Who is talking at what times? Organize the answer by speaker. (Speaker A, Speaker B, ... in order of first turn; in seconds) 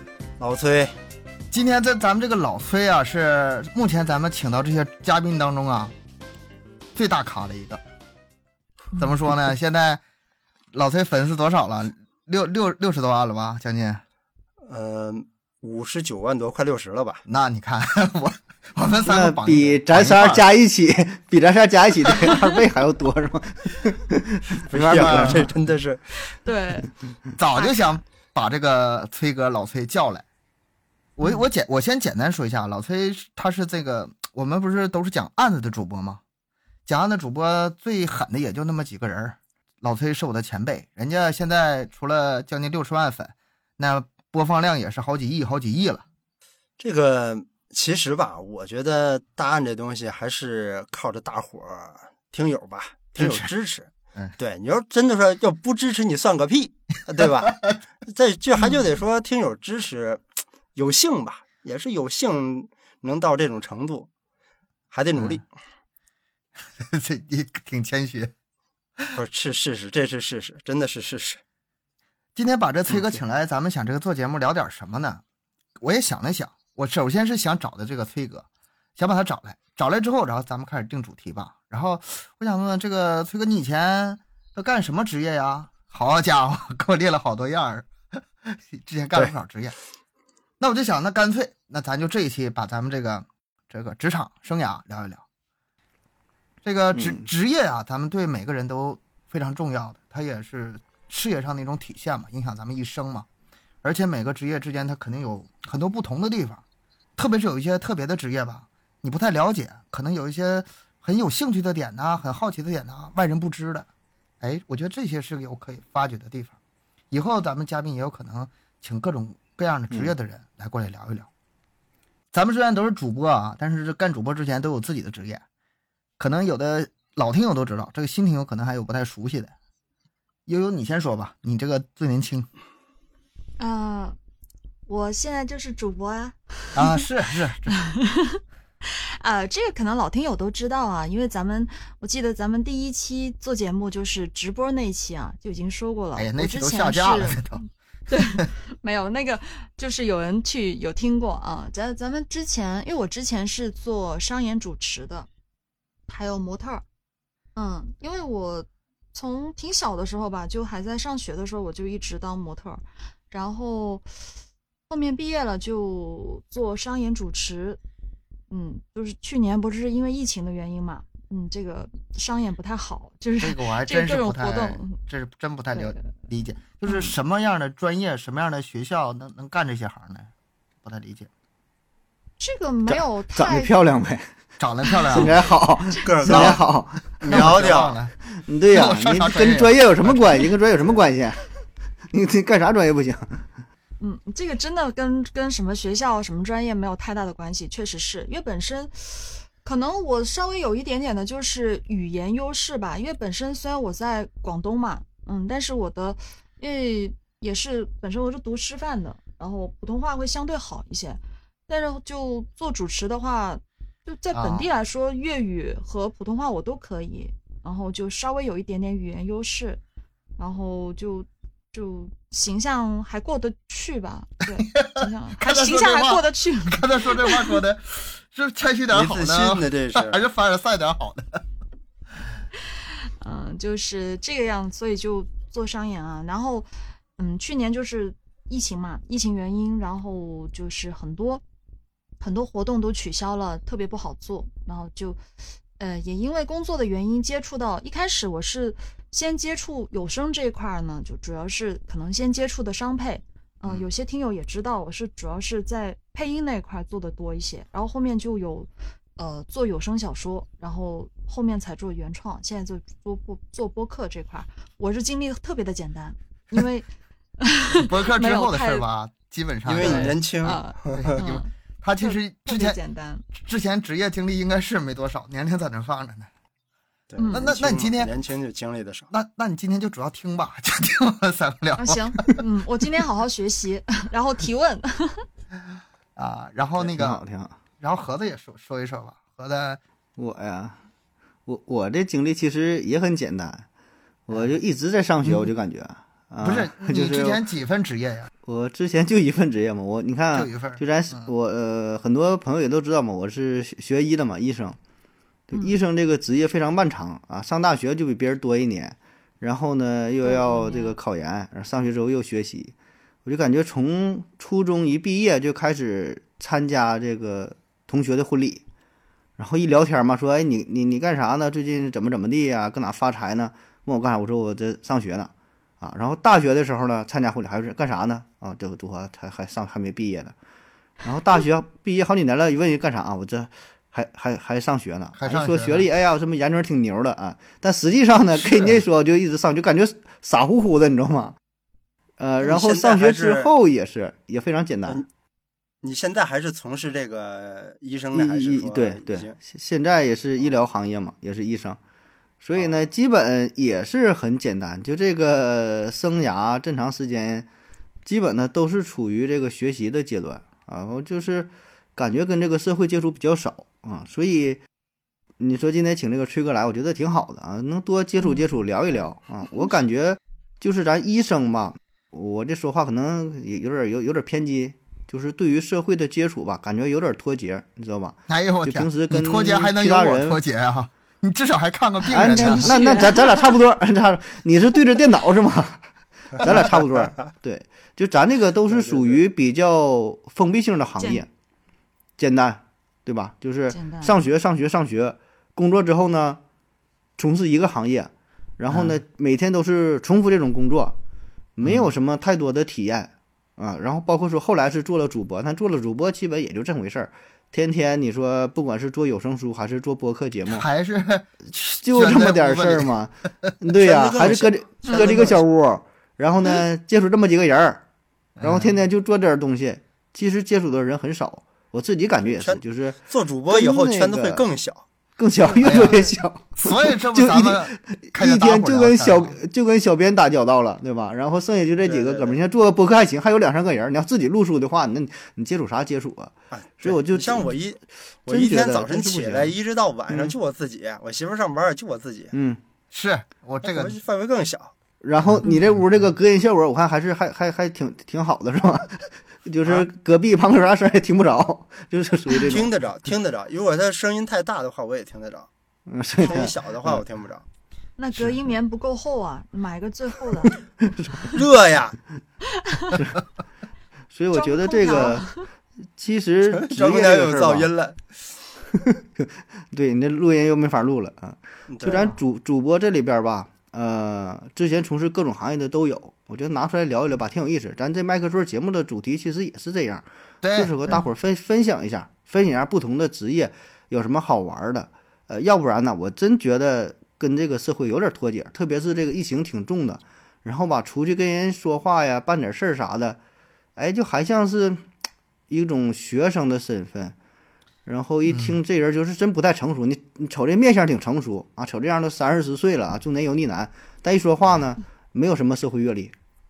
Speaker A: 0.4-0.9, 14.7-17.2, 24.7-26.0, 46.8-60.2, 60.8-64.1, 64.9-65.5, 69.2-71.4, 72.9-73.2, 186.0-186.6, 187.2-188.0, 228.9-230.2, 269.6-271.2, 277.1-279.1, 342.4-343.5, 345.8-349.4, 388.7-389.2, 413.8-415.4, 422.2-424.8, 431.8-432.4, 436.5-442.3, 443.6-444.7, 452.5-455.5, 456.2-457.4, 461.3-462.0, 466.5-468.0, 471.7-472.2
Speaker B: 1.5-5.9, 7.0-7.8, 9.0-10.0, 10.7-14.0, 17.3-20.4, 24.9-25.5, 27.4-30.2, 31.2-36.2, 36.9-46.0, 53.2-53.5, 57.2-57.8, 66.8-68.3, 72.3-75.2, 75.8-78.5, 79.0-89.8, 90.6-95.2, 96.6-103.3, 103.8-106.6, 107.2-113.9, 114.4-116.6, 117.1-121.3, 122.3-125.4, 126.2-129.5, 130.5-132.5, 136.7-137.8, 146.2-147.6, 173.4-180.3, 180.8-181.3, 184.6-185.4, 186.3-186.6, 187.3-188.2, 188.7-190.5, 214.3-214.7, 224.8-231.4, 267.7-270.2, 270.9-272.8, 273.3-276.3, 277.3-278.1, 279.1-282.4, 286.2-287.2, 287.8-289.8, 295.2-295.5, 296.4-298.3, 300.3-301.3, 335.2-335.9, 378.3-383.1, 398.7-399.0, 410.5-413.5, 418.4-418.8, 425.6-426.1, 426.6-429.4, 442.9-444.0, 480.4-480.7, 498.3-498.6
Speaker C: 19.1-25.5, 97.0-97.3, 182.9-184.3, 185.1-187.6, 188.4-191.4, 192.1-193.5, 286.9-287.6, 290.2-290.8, 291.5-293.6, 294.3-297.4, 298.4-304.8, 305.5-312.7, 313.2-318.6, 319.4-330.3, 331.0-341.4, 342.2-345.0, 348.1-351.8, 352.4-357.5, 358.1-364.6, 365.4-380.4, 382.1-391.3, 392.2-396.4, 397.2-401.0, 401.6-410.7, 411.8-417.8, 418.4-423.0, 423.5-424.4, 425.2-437.6, 438.3-439.5, 440.1-440.4, 442.3-442.6, 445.0-452.7, 455.9-457.0, 460.5-461.3, 464.1-465.3, 466.0-467.7, 468.7-480.1, 480.6-493.2, 493.8-494.9, 495.5-497.1, 497.9-506.1
Speaker D: 26.4-26.9, 58.6-58.8, 133.6-134.2, 134.9-136.4, 137.8-155.3, 156.1-156.8, 157.6-164.1, 164.9-167.8, 168.5-175.0, 175.7-176.1, 176.9-177.1, 182.4-183.7, 184.9-186.0, 194.0-219.8, 220.4-227.6, 233.2-241.4, 242.2-245.2, 245.8-266.9, 267.4-268.9, 269.8-271.5, 272.0-273.3, 277.2-277.5, 281.8-285.3, 305.5-305.8, 310.2-311.0, 382.3-383.6, 391.0-391.2, 393.7-394.2, 414.8-415.1, 425.4-426.1, 458.0-460.6, 462.7-463.0, 464.3-465.4